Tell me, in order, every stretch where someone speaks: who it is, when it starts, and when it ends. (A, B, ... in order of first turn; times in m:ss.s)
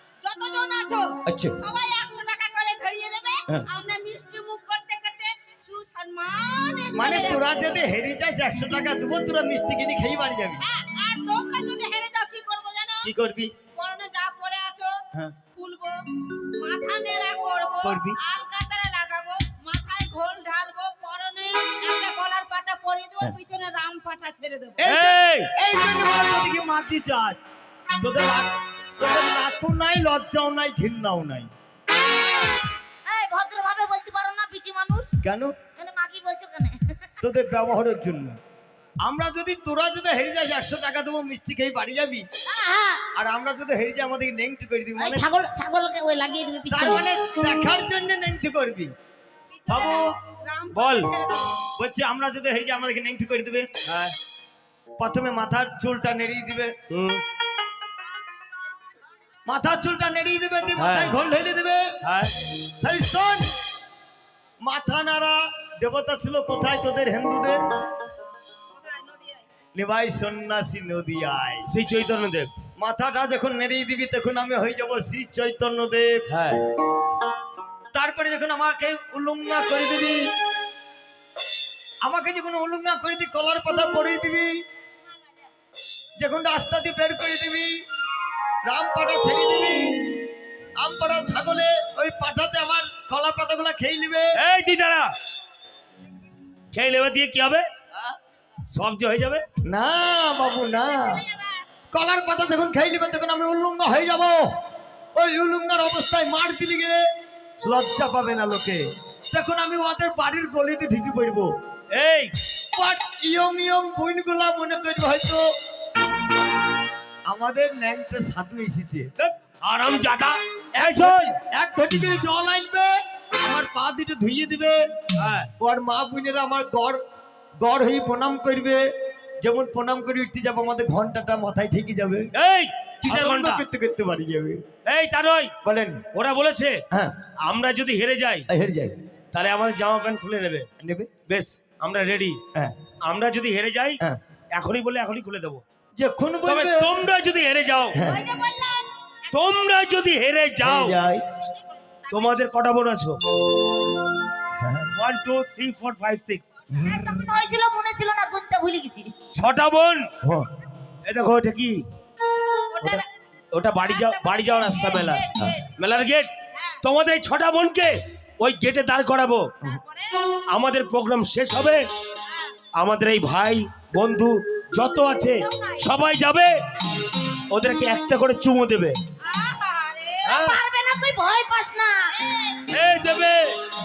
0:00.2-0:07.6 A
0:01.3-0:01.6 B
0:06.9-0:10.7 B
0:10.6-0:13.1 A
0:13.0-0:13.5 B
0:13.7-0:15.0 A
0:15.5-0:24.8 A
0:17.8-0:18.2 B
0:24.8-0:27.4 B
0:24.8-0:25.5 C
0:28.0-0:31.5 B
0:33.0-0:35.1 D
0:35.2-0:35.6 B
0:35.8-0:37.0 D
0:37.2-0:38.4 B
0:39.0-0:42.3 B
0:42.5-0:43.0 D
0:43.1-0:45.3 B
0:45.0-0:47.1 D
0:46.7-0:48.9 B
0:49.5-0:51.7 A
0:49.7-0:50.2 B
0:50.7-0:51.1 C
0:51.8-0:53.7 B
0:53.8-0:54.2 C
0:55.0-0:56.8 B
0:56.9-0:57.2 C
0:59.5-1:02.0 B
1:00.8-1:01.2 C
1:02.0-1:02.4 C
1:02.5-1:03.6 B
1:04.6-1:07.7 B
1:08.8-1:09.4 A
1:09.8-1:11.7 B
1:11.7-1:12.5 C
1:12.8-1:16.3 B
1:16.3-1:16.6 C
1:17.9-1:20.3 B
1:22.0-1:24.6 B
1:26.2-1:27.8 B
1:28.6-1:30.1 B
1:30.8-1:34.4 B
1:34.4-1:35.1 C
1:36.7-1:37.7 C
1:38.7-1:39.4 C
1:39.6-1:41.3 B
1:41.9-1:44.4 B
1:45.2-1:47.0 B
1:47.6-1:51.5 B
1:51.9-1:52.3 C
1:52.7-1:55.5 B
1:57.3-1:59.1 B
1:59.2-2:01.3 C
2:00.8-2:04.8 B
2:05.2-2:05.5 C
2:05.6-2:07.0 B
2:07.6-2:08.8 B
2:09.4-2:12.3 B
2:12.4-2:13.6 C
2:13.0-2:14.6 B
2:14.9-2:15.5 C
2:15.6-2:16.1 B
2:16.1-2:16.8 C
2:17.4-2:18.5 C
2:18.5-2:18.9 B
2:19.3-2:20.7 C
2:20.8-2:21.1 B
2:21.3-2:22.4 C
2:23.0-2:24.0 C
2:24.5-2:25.6 C
2:26.0-2:27.0 B
2:26.5-2:28.0 C
2:27.9-2:28.3 B
2:28.0-2:29.4 A
2:29.3-2:31.0 C
2:30.6-2:31.2 B
2:31.9-2:32.4 A
2:32.1-2:33.2 C
2:34.6-2:34.9 B
2:34.9-2:36.4 C
2:36.7-2:37.2 B
2:36.7-2:39.1 D
2:39.3-2:40.1 C
2:40.2-2:40.5 B
2:41.0-2:41.8 C
2:42.7-2:43.2 A
2:43.5-2:49.5 C
2:43.8-2:45.7 A
2:46.5-2:46.8 A
2:49.6-2:50.3 A
2:50.5-2:51.9 C
2:52.2-2:52.6 A
2:52.8-2:56.6 C
2:55.5-2:55.8 A
2:57.5-2:59.0 C
2:59.2-3:00.4 A
3:00.2-3:00.6 C
3:00.4-3:02.1 D
3:02.2-3:02.6 A
3:02.7-3:03.6 C